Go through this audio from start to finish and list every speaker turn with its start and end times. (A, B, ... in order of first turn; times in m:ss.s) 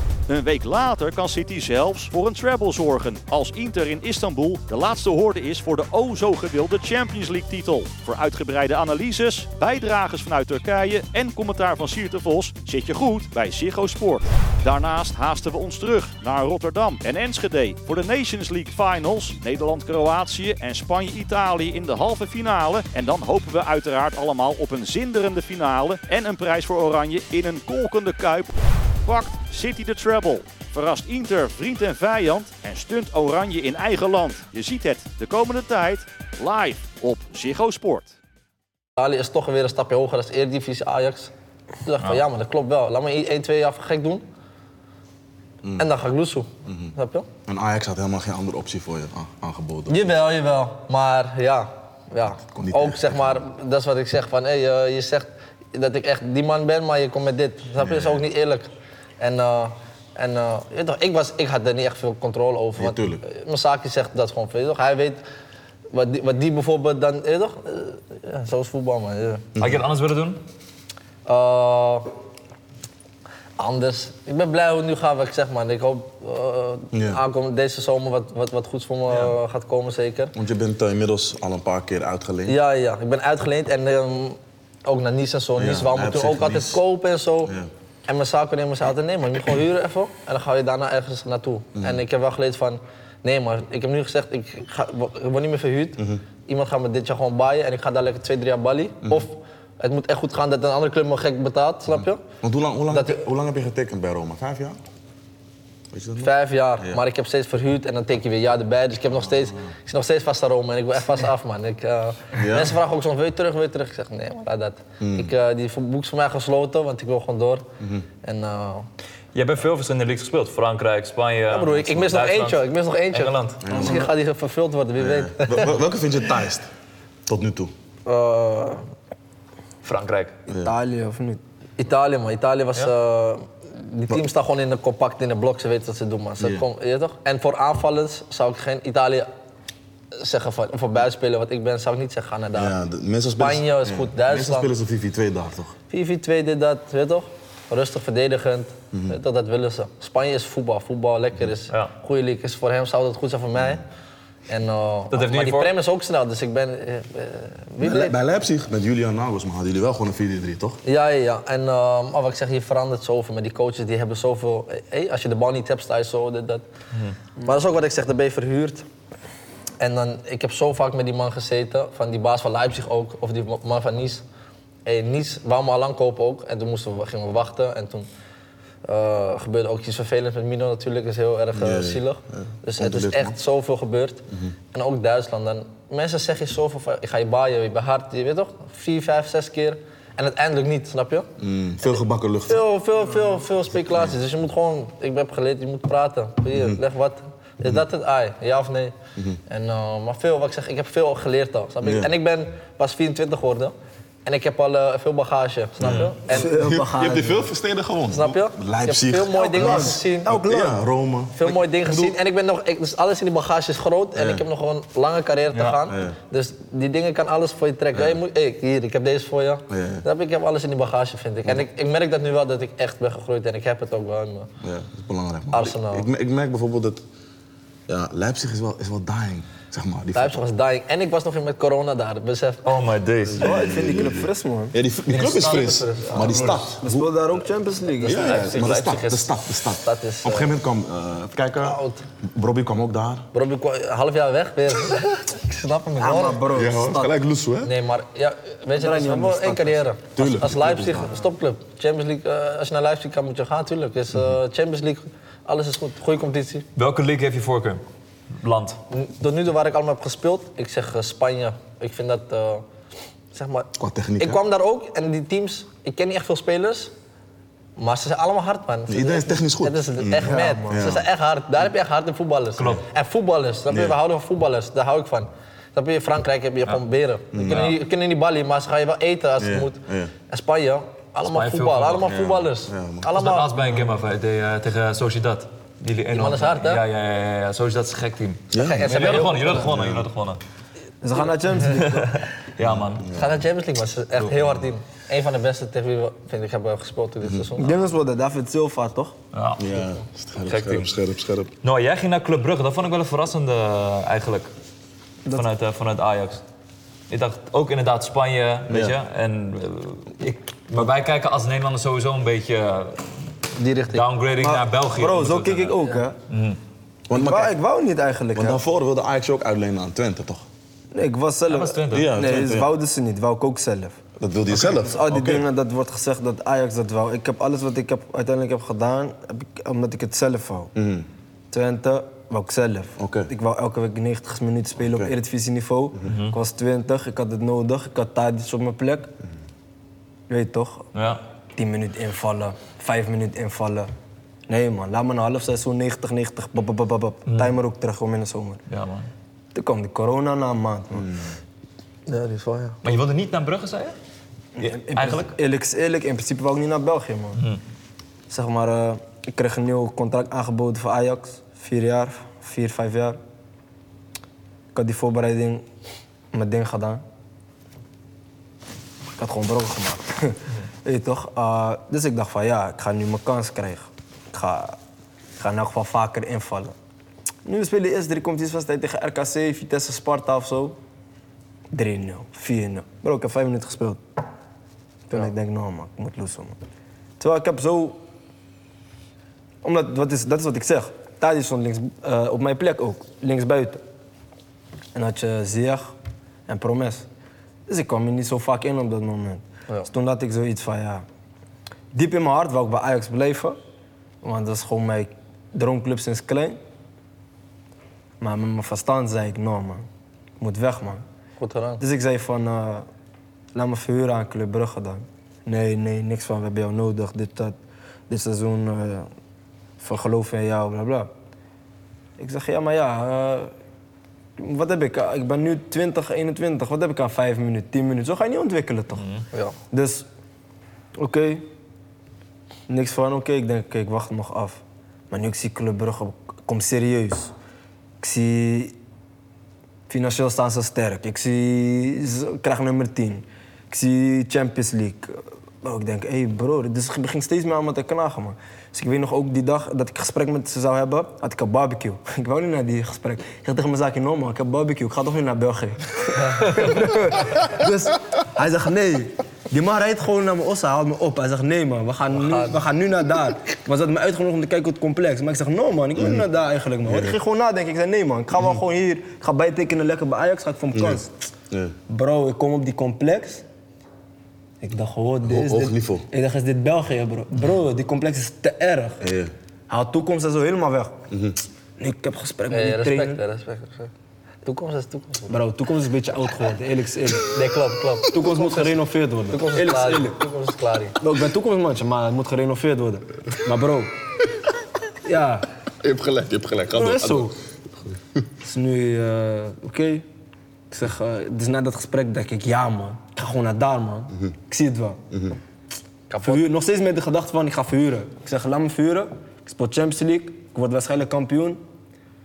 0:00.3-0:28.5 A
0:29.0-0:38.1 A
0:39.0-0:41.3 B
0:41.8-0:44.2 B
0:45.8-0:47.3 B
0:46.6-0:46.9 C
0:47.4-0:50.1 C
0:49.9-0:58.7 B
0:52.5-0:53.4 C
0:57.8-0:58.2 C
0:59.2-1:05.2 B
1:02.8-1:03.2 C
1:05.9-1:09.4 B
1:09.6-1:09.8 C
1:09.6-1:10.4 D
1:11.2-1:12.1 B
1:13.6-1:20.3 B
1:16.9-1:17.2 C
1:20.3-1:22.6 C
1:22.5-1:27.5 B
1:25.6-1:26.8 C
1:28.1-1:42.2 B
1:31.8-1:32.0 C
1:42.4-1:44.8 C
1:42.9-1:43.2 B
1:45.9-1:47.0 C
1:46.2-1:57.7 B
1:49.4-1:49.7 C
1:52.4-1:52.7 C
1:55.0-1:55.3 C
1:58.2-1:58.9 B
1:59.3-2:03.7 D
2:01.5-2:05.8 B
2:03.6-2:04.1 C
2:03.8-2:04.0 E
2:05.0-2:06.7 C
2:07.3-2:07.7 C
2:08.0-2:08.8 B
2:09.8-2:10.3 D
2:10.5-2:10.7 C
2:10.6-2:11.4 E
2:11.8-2:19.3 B
2:16.4-2:16.6 C
2:20.1-2:22.7 B
2:22.6-2:25.7 C
2:23.4-2:24.7 B
2:25.9-2:33.8 B
2:28.9-2:29.2 C
2:34.5-2:38.2 B
2:35.1-2:35.7 D
2:37.8-2:40.8 C
2:40.8-2:46.6 B
2:47.4-2:48.8 B
2:49.8-2:54.2 B
2:54.8-2:58.1 B
2:58.8-3:11.3 B
3:01.5-3:03.4 C
3:11.4-3:12.6 C
3:11.8-3:19.0 B
3:16.5-3:16.8 C
3:19.5-3:23.7 B
3:21.8-3:22.1 C
3:24.2-3:26.5 B
3:25.8-3:32.1 C
3:25.8-3:26.1 D
3:26.3-3:27.4 E
3:28.1-3:30.3 B
3:29.3-3:30.8 E
3:31.3-3:44.5 B
3:34.2-3:34.4 C
3:35.5-3:35.8 D
3:35.9-3:36.2 C
3:39.7-3:40.0 C
3:44.6-3:47.0 C
3:45.5-3:46.1 B
3:47.9-3:50.4 C
3:50.1-3:52.7 B
3:52.6-3:53.7 D
3:53.2-3:57.1 C
3:53.4-3:54.8 E
3:55.1-3:56.6 B
3:55.2-3:55.7 D
3:56.1-3:58.5 E
3:58.0-4:03.3 C
3:58.0-4:00.5 B
4:01.6-4:02.0 B
4:03.3-4:06.4 B
4:06.0-4:07.1 E
4:06.5-4:07.7 C
4:07.6-4:16.6 B
4:08.8-4:09.8 E
4:10.2-4:11.2 C
4:16.8-4:17.8 D
4:18.4-4:18.8 D
4:18.9-4:22.6 B
4:23.3-4:26.9 B
4:23.8-4:24.4 C
4:27.8-4:43.5 B
4:28.9-4:31.0 C
4:30.2-4:30.8 E
4:33.7-4:34.0 C
4:37.3-4:37.8 C
4:37.4-4:37.8 D
4:39.4-4:40.1 C
4:41.2-4:42.1 D
4:42.0-4:43.1 C
4:43.1-4:50.4 D
4:46.1-4:46.8 B
4:48.5-4:50.0 C
4:48.6-4:49.6 B
4:51.0-4:52.2 E
4:51.6-4:53.1 D
4:52.6-4:53.4 C
4:53.1-4:57.8 B
4:54.2-4:54.6 C
4:57.6-4:59.1 E
4:59.3-4:59.8 D
4:59.6-5:01.5 C
5:00.4-5:00.9 D
5:01.6-5:04.5 D
5:05.3-5:06.4 D
5:07.1-5:13.1 D
5:08.7-5:09.0 C
5:13.6-5:14.1 B
5:13.9-5:16.6 D
5:14.4-5:16.1 E
5:17.1-5:17.6 C
5:17.1-5:18.6 E
5:18.3-5:20.4 C
5:20.9-5:24.0 E
5:21.5-5:22.2 D
5:21.9-5:22.7 C
5:24.2-5:25.4 C
5:24.5-5:30.7 E
5:30.7-5:31.1 C
5:31.5-5:39.1 E
5:33.0-5:33.3 C
5:34.8-5:35.1 C
5:36.0-5:36.4 D
5:40.3-5:40.9 E
5:40.9-5:41.2 D
5:41.5-5:43.9 E
5:44.5-5:48.6 E
5:47.3-5:47.5 D
5:48.7-5:49.1 D
5:49.5-5:51.1 E
5:50.9-5:51.3 C
5:52.1-5:52.8 B
5:52.8-5:54.0 D
5:54.6-5:55.3 D
5:54.6-5:57.4 E
5:57.4-5:57.6 D
5:58.3-6:03.2 E
6:04.7-6:05.6 E
6:06.3-6:07.0 E
6:09.2-6:14.8 E
6:15.4-6:16.7 E
6:17.4-6:20.8 E
6:21.7-6:24.0 E
6:25.1-6:26.6 E
6:27.2-6:28.0 E
6:29.6-6:33.8 E
6:34.9-6:35.9 E
6:36.5-6:37.1 E
6:37.7-6:41.0 E
6:41.9-6:43.6 E
6:44.2-6:46.6 E
6:48.2-6:49.9 E
6:50.4-6:51.0 E
6:51.4-6:51.8 B
6:51.8-6:52.8 E
6:53.5-6:57.5 E
6:58.1-6:59.1 E
6:59.8-7:01.1 E
7:02.2-7:03.5 E
7:04.4-7:09.0 E
7:09.0-7:09.2 D
7:09.7-7:10.0 E
7:11.0-7:11.4 E
7:12.7-7:17.3 E
7:18.0-7:18.7 E
7:19.9-7:51.1 E
7:42.2-7:42.6 B
7:45.9-7:46.3 C
7:46.8-7:47.2 C
7:50.7-7:51.7 C
7:51.9-7:53.4 E
7:54.6-7:59.0 E
7:55.2-7:56.1 C
7:59.0-7:59.3 C
7:59.7-8:01.0 E
8:01.1-8:01.4 C
8:01.8-8:03.2 E
8:02.5-8:03.9 B
8:04.4-8:05.4 B
8:05.3-8:07.4 E
8:07.3-8:08.8 B
8:08.0-8:10.2 E
8:09.3-8:11.0 B
8:11.0-8:13.9 E
8:15.0-8:15.5 E
8:15.8-8:17.3 C
8:16.7-8:17.3 E
8:18.4-8:20.0 E
8:20.7-8:25.0 E
8:25.1-8:25.4 C
8:26.1-8:26.4 B
8:26.2-8:31.6 E